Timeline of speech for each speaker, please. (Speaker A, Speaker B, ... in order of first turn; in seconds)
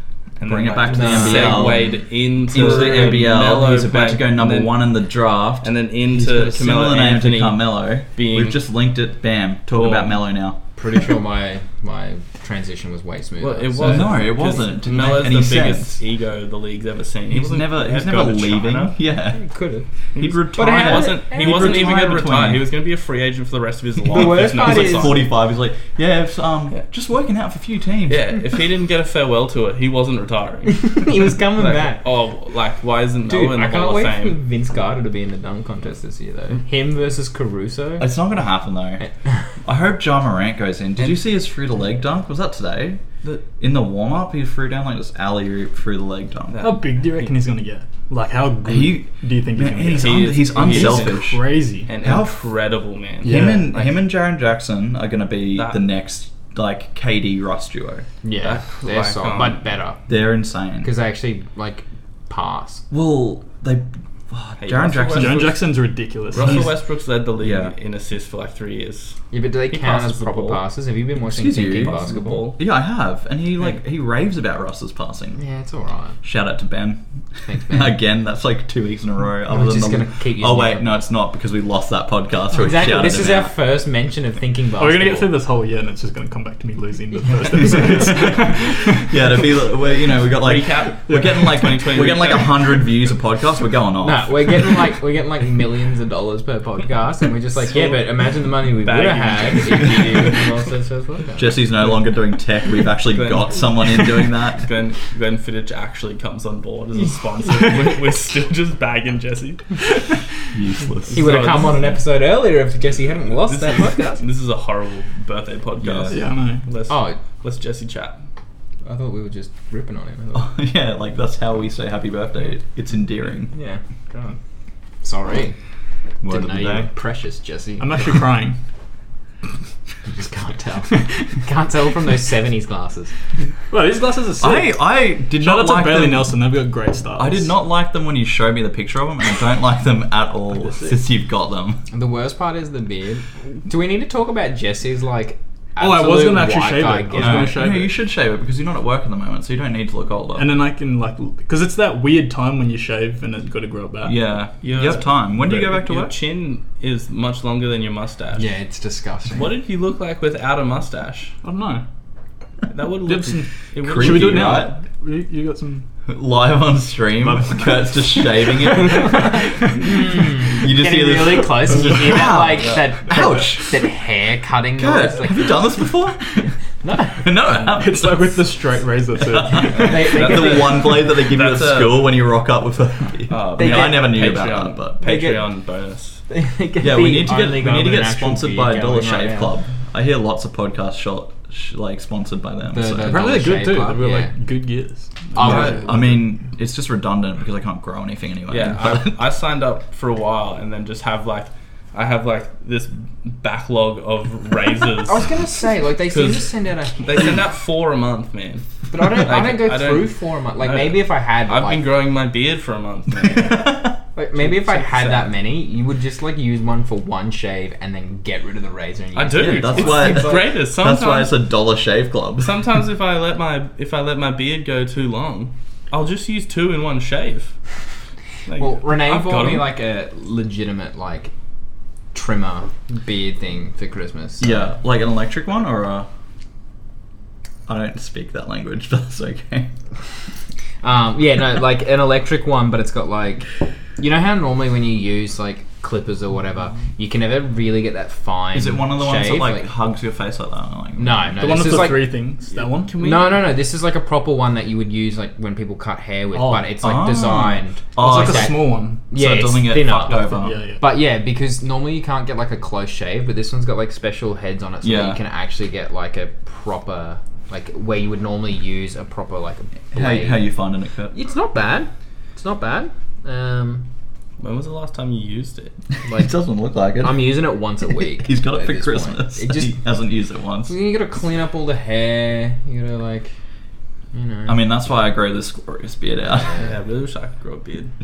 Speaker A: 0.4-4.9, 5.6-8.6, 9.7-10.2, 13.4-18.9, 20.1-25.2, 28.1-34.4, 46.5-47.4, 49.9-54.0, 58.4-59.6, 64.6-65.6, 66.3-70.6, 71.8-72.6, 90.4-92.8, 97.7-98.1, 98.8-100.4, 103.1-109.9, 111.1-111.9, 113.5-118.2, 154.6-158.5, 159.3-161.4, 162.7-164.7, 179.7-182.1, 183.3-186.2, 195.4-196.0, 198.5-205.3, 206.1-206.5, 207.0-213.8, 214.3-215.3, 219.2-221.4, 222.4-227.6, 228.5-229.7, 252.5-253.5, 274.4-275.8, 286.5-287.9
Speaker B: 0.4-10.6, 13.8-16.0, 17.3-19.4, 20.2-22.7, 24.1-28.3, 38.0-39.0, 39.6-46.6, 48.6-52.4, 53.2-58.1, 60.1-60.9, 62.9-65.6, 66.4-66.7, 67.4-67.8, 71.2-75.4, 76.2-77.0, 77.6-83.5, 87.6-94.8, 101.4-104.7, 110.5-111.6, 115.8-116.2, 120.3-123.5, 126.2-126.9, 134.4-136.4, 137.2-141.8, 147.2-150.5, 154.1-156.1, 163.8-164.7, 166.1-173.8, 174.8-176.5, 177.1-178.4, 179.2-185.0, 186.8-193.2, 195.4-199.2, 213.2-213.9, 219.4-222.6, 234.4-236.1, 237.7-239.7, 248.5-251.8, 256.8-260.6, 264.8-265.2, 269.9-271.1, 276.1-280.7, 284.5-286.5
Speaker C: 0.9-1.9, 10.8-14.2, 19.3-19.9, 20.5-22.1, 24.1-25.3, 30.7-32.0, 33.3-38.1, 39.0-39.5, 58.2-60.0, 60.8-62.8, 69.3-72.5, 75.3-76.2, 77.5-78.0, 79.5-80.9, 82.5-85.3, 94.0-101.6, 111.1-114.2, 116.9-117.2, 118.8-120.5, 123.5-123.8, 125.0-125.6, 126.3-128.2, 130.1-133.1, 141.9-147.6, 158.4-159.6, 169.8-175.7, 176.8-177.3, 179.8-180.8, 183.6-184.2, 185.0-185.5, 186.3-189.5, 192.7-194.3, 195.3-195.9, 205.1-207.5, 208.9-211.9, 214.2-220.5, 228.6-231.3, 232.1-234.7, 240.8-249.7, 251.0-252.1, 253.0-270.5, 271.1-273.9, 276.1-276.3, 277.0-279.8, 280.7-283.3, 284.1-284.6, 286.3-286.7
Speaker D: 46.6-51.9, 53.2-53.7, 65.1-66.7, 84.8-89.2, 91.1-91.5, 116.1-116.7, 124.1-124.4, 127.8-128.6, 133.7-137.5, 140.7-140.9, 145.8-147.9, 150.3-154.2, 161.4-161.8, 163.1-165.8, 167.2-169.8, 177.5-180.1, 193.0-196.2, 251.4-252.9, 256.3-256.8, 258.0-259.0, 260.1-260.8